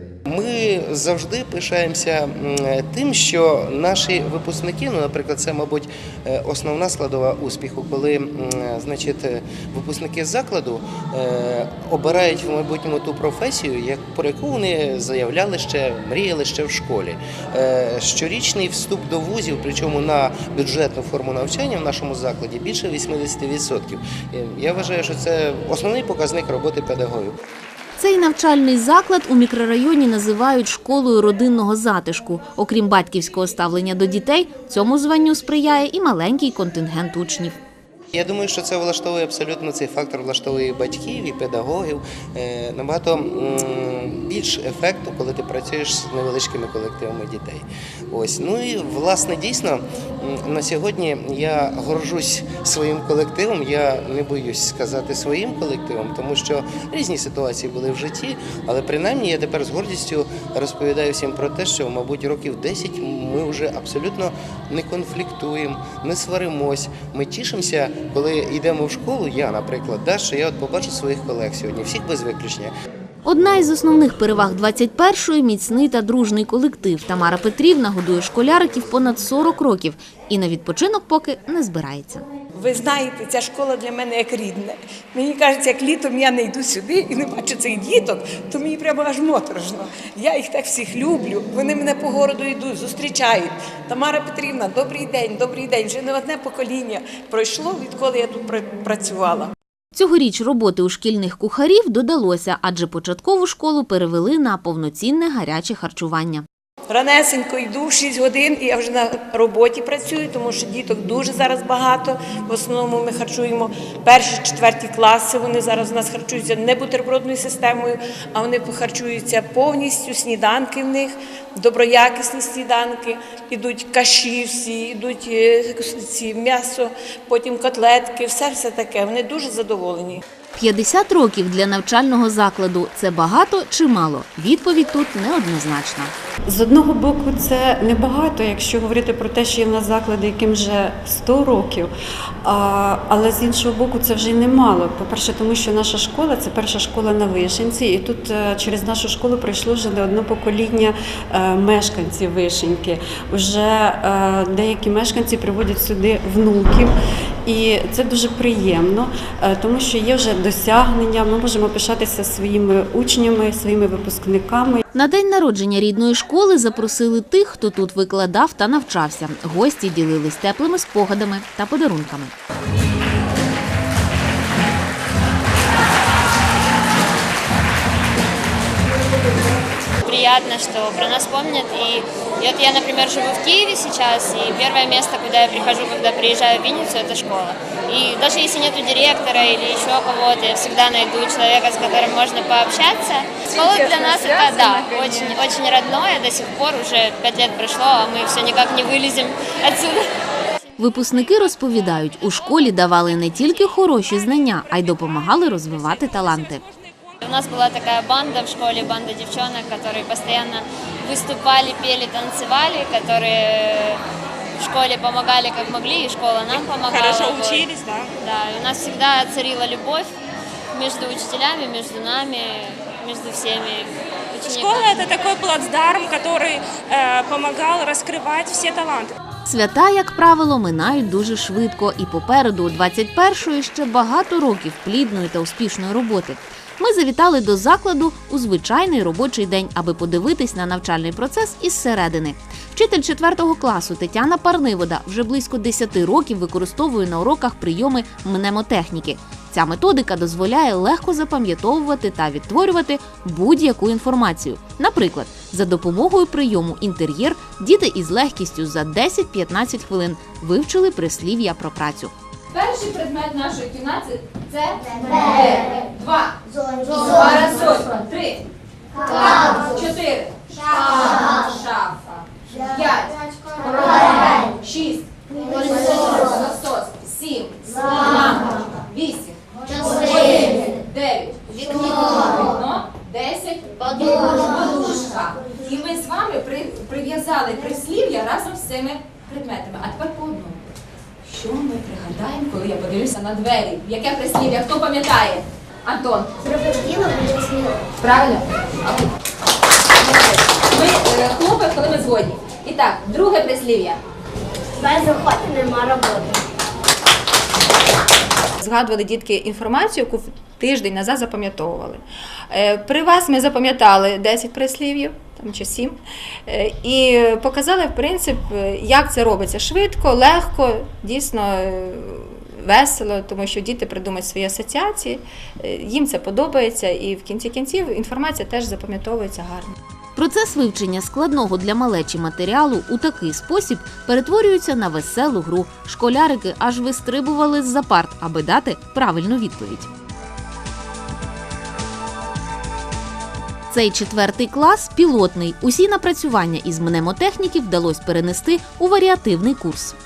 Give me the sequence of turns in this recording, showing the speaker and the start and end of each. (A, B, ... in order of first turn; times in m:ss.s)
0:00.3-0:27.3 A
0:28.0-0:37.6 B
0:38.1-1:12.7 A
1:13.2-1:22.2 B
1:22.5-1:39.5 C
1:39.9-1:46.4 B
1:46.9-2:10.2 C
2:10.6-2:16.1 B
2:16.5-2:21.9 D
2:22.4-2:36.9 D
2:37.4-2:44.8 D
2:44.9-2:52.3 B
3:00.0-3:20.1 E
3:13.4-3:15.5 C
3:20.8-3:26.6 B
3:27.2-3:34.0 E
3:34.6-3:37.7 E
3:36.5-3:38.1 F
3:38.2-3:40.1 E
3:40.7-3:45.1 E
3:44.4-3:49.1 F
3:49.5-4:22.1 B
4:23.2-4:24.7 G
4:24.9-4:25.2 H
4:25.4-4:26.2 G
4:26.5-4:27.4 H
4:27.0-4:28.4 G
4:29.1-4:32.2 G
4:32.7-4:33.1 G
4:33.7-4:34.9 G
4:35.9-4:39.3 G
4:39.9-4:50.6 G
4:51.3-4:53.5 G
4:55.9-4:56.3 G
4:56.4-4:57.9 H
4:58.0-4:58.4 G
5:01.5-5:03.6 G
5:04.8-5:06.4 H
5:08.6-5:29.8 I
5:30.2-5:39.9 B
5:43.7-5:50.0 B